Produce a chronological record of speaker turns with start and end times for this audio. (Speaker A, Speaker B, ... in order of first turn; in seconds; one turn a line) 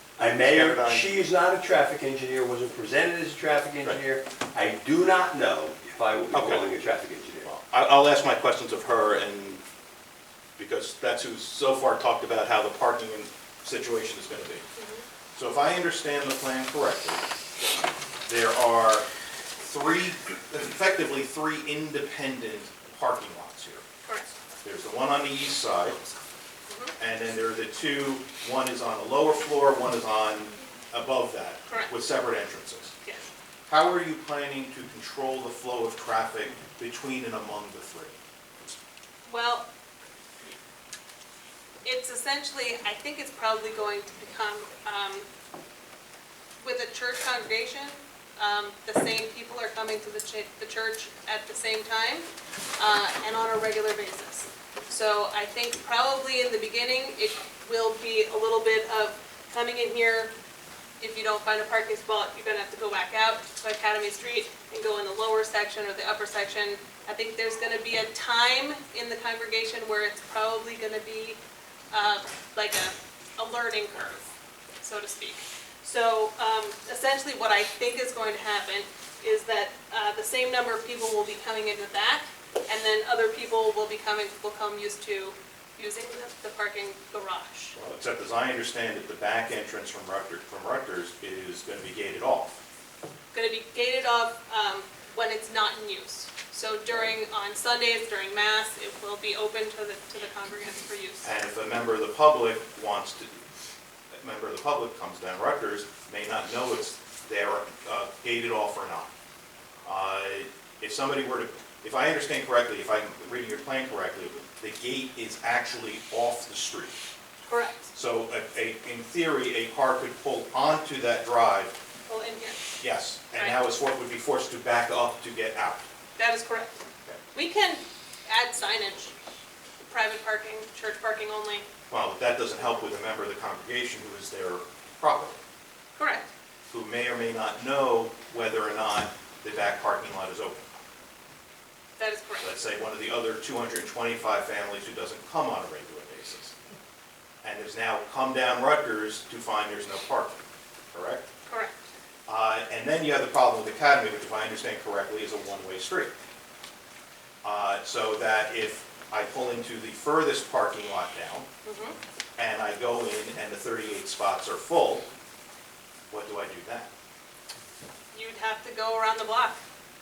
Speaker A: 0.2-7.5
Speaker B: 0.3-1.1
Speaker B: 6.3-6.6
Speaker B: 7.5-9.6
Speaker B: 10.6-14.7
Speaker C: 14.8-15.0
Speaker B: 15.4-17.2
Speaker B: 18.3-19.1
Speaker B: 19.6-23.8
Speaker C: 24.1-24.3
Speaker B: 24.6-26.1
Speaker C: 26.7-26.9
Speaker B: 27.0-32.9
Speaker C: 31.7-31.9
Speaker B: 33.7-38.2
Speaker C: 39.2-39.7
Speaker C: 41.8-45.3
Speaker C: 46.6-52.3
Speaker C: 52.8-60.3
Speaker C: 61.0-71.4
Speaker C: 71.9-87.8
Speaker B: 87.8-92.6
Speaker C: 93.3-101.3
Speaker B: 101.2-103.3
Speaker B: 104.1-109.1
Speaker B: 109.8-117.0
Speaker C: 117.5-117.9
Speaker B: 117.9-121.8
Speaker C: 122.1-122.8
Speaker B: 122.8-125.9
Speaker C: 126.2-126.8
Speaker C: 127.3-129.1
Speaker C: 129.9-131.7
Speaker B: 131.9-135.4
Speaker C: 136.0-136.3
Speaker B: 136.7-140.7
Speaker C: 142.0-142.5
Speaker B: 142.4-146.6
Speaker B: 147.4-151.2
Speaker C: 151.5-151.9
Speaker B: 152.3-156.1
Speaker B: 157.4-161.5
Speaker C: 161.7-162.0
Speaker B: 162.4-165.1
Speaker B: 166.1-166.9
Speaker C: 168.1-169.6